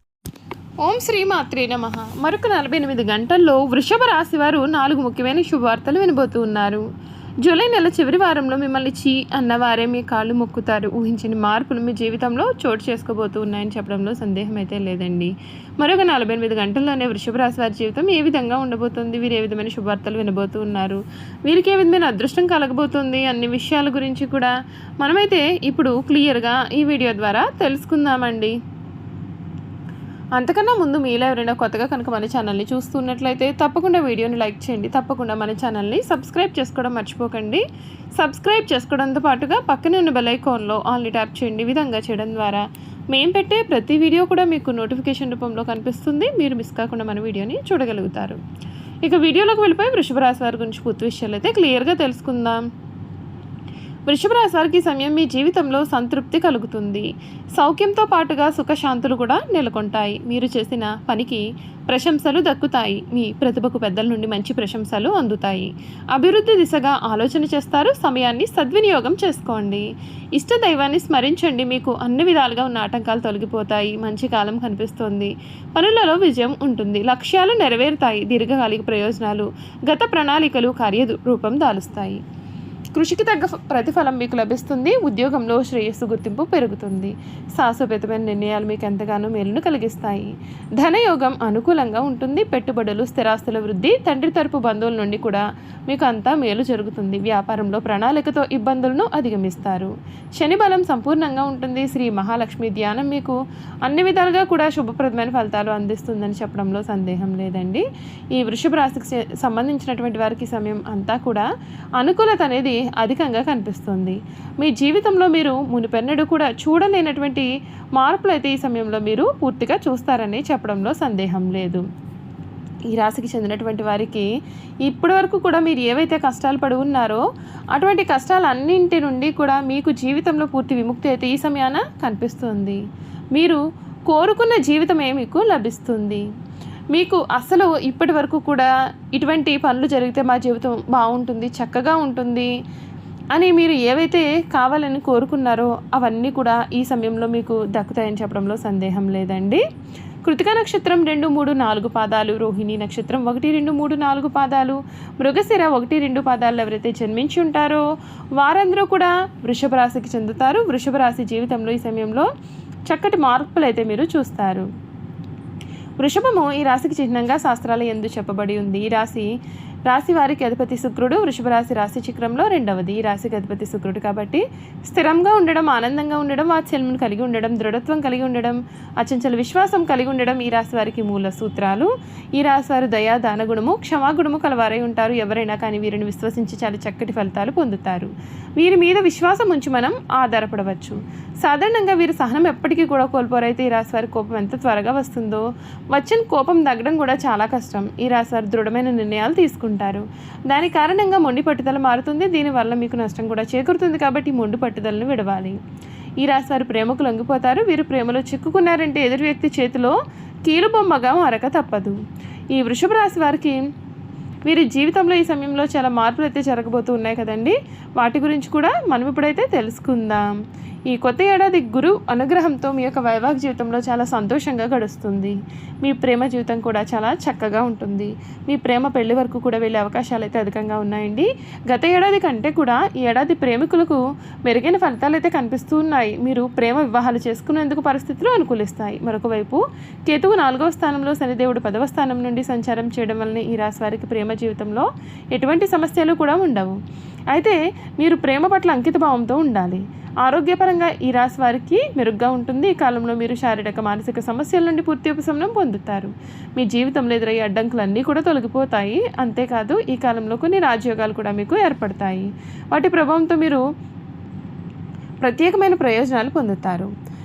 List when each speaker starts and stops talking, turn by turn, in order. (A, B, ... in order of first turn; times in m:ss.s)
0:00.8-0:06.8 A
0:07.4-0:28.6 A
0:30.4-0:37.6 A
0:38.2-0:48.4 A
0:49.0-0:52.6 A
0:54.1-1:22.2 A
1:23.0-1:47.8 A
1:48.4-1:51.5 A
1:52.0-2:01.8 A
2:02.9-2:04.3 A
2:04.8-2:12.8 A
2:13.4-2:16.2 A
2:16.9-2:22.5 A
2:23.3-2:29.6 A
2:30.2-2:37.8 A
2:38.4-2:42.3 A
2:42.9-2:44.7 A
2:46.0-2:49.3 A
2:49.9-3:25.6 A
3:26.2-3:32.0 A
3:32.5-3:33.6 A
3:34.5-3:40.3 A
3:40.9-4:06.8 A
4:07.3-4:23.6 A
4:25.2-4:26.9 A